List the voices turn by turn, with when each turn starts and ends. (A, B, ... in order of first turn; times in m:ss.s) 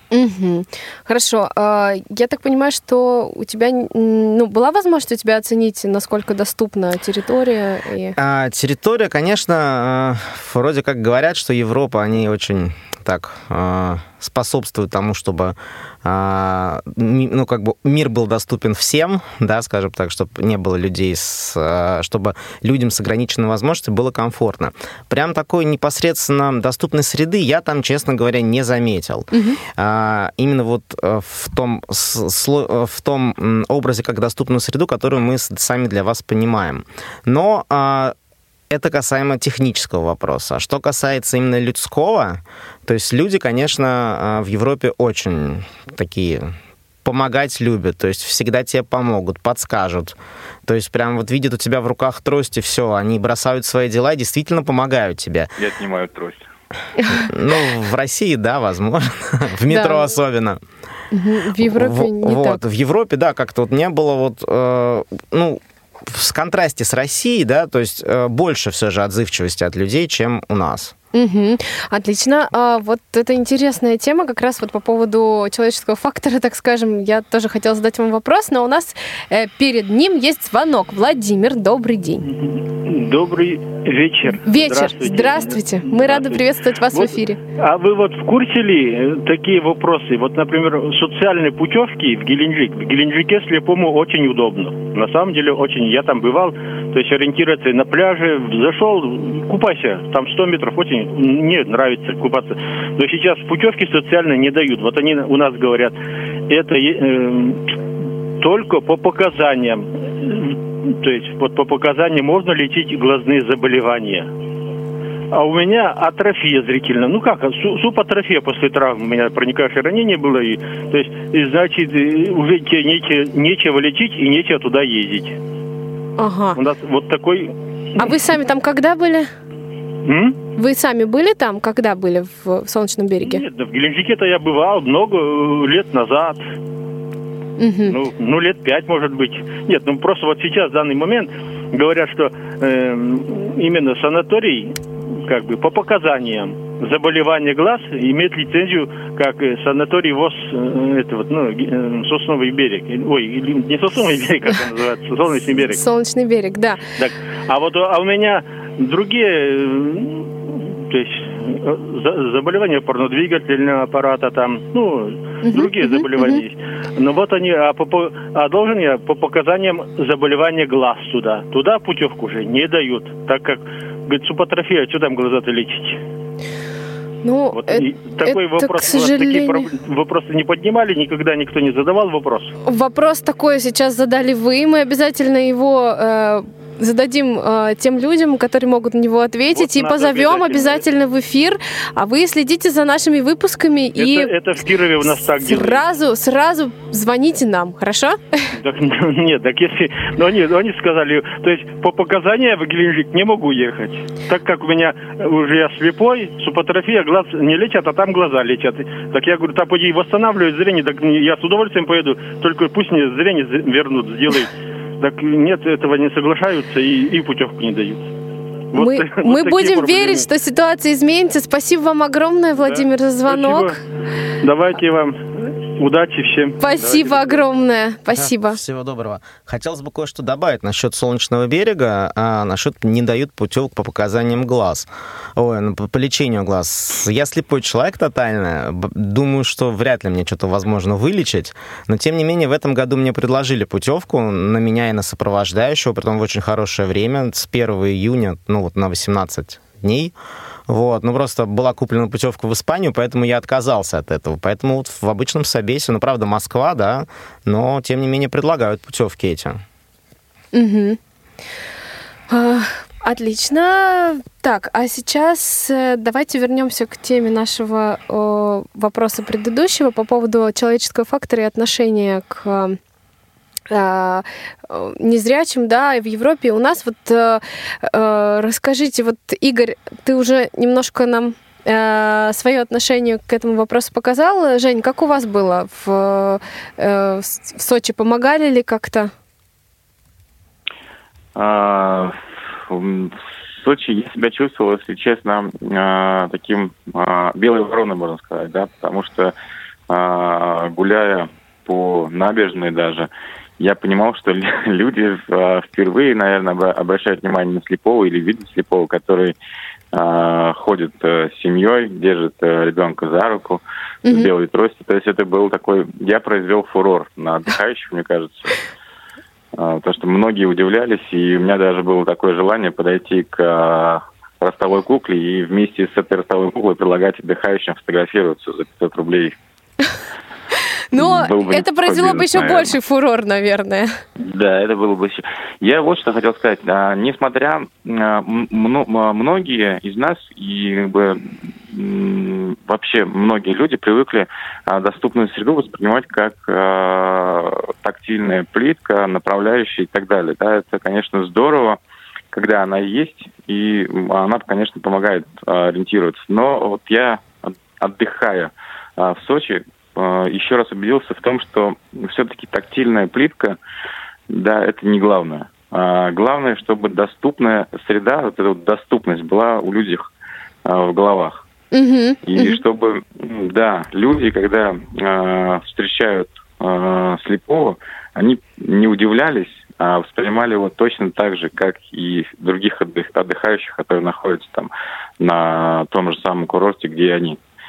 0:00.1-0:08.2 A
0:08.2-0:38.2 B
0:29.3-0:29.6 A
0:38.7-0:46.5 B
0:47.0-0:55.5 B
0:55.6-0:56.5 C
0:57.2-1:00.6 B
0:59.7-1:00.1 A
1:01.1-1:02.6 A
1:01.6-1:10.9 B
1:11.1-1:22.3 A
1:22.3-1:46.0 D
1:24.3-1:27.4 A
1:46.5-1:47.6 D
1:48.4-1:54.3 D
1:55.3-2:05.4 D
2:06.2-2:06.6 A
2:06.6-2:08.1 D
2:08.0-2:09.3 A
2:10.0-2:10.4 D
2:10.6-2:13.4 A
2:13.2-2:16.4 D
2:17.6-2:18.0 A
2:17.9-2:35.8 D
2:35.6-2:36.8 A
2:37.0-2:56.0 D
2:45.4-2:46.4 A
2:57.2-2:59.7 A
2:57.5-3:02.5 D
3:02.7-3:14.3 A
3:09.5-3:10.8 D
3:14.0-3:15.8 D
3:15.4-3:18.5 A
3:18.6-3:38.0 D
3:38.7-3:40.3 D
3:38.8-3:43.8 A
3:42.6-3:43.8 D
3:44.4-3:47.5 D
3:46.6-3:48.6 A
3:48.1-4:10.1 B
4:10.7-4:19.6 B
4:20.5-4:21.0 A
4:22.3-4:32.8 A
4:33.7-4:49.1 A
4:51.4-4:59.3 C
4:59.9-5:09.4 C
5:09.9-5:18.6 C
5:19.6-5:29.4 C
5:30.9-5:33.9 A
5:30.9-5:32.8 C
5:34.2-5:51.8 C
5:52.3-6:03.6 C
6:04.3-6:10.1 C
6:10.7-6:11.4 C
6:11.7-6:12.6 A
6:12.2-6:27.4 C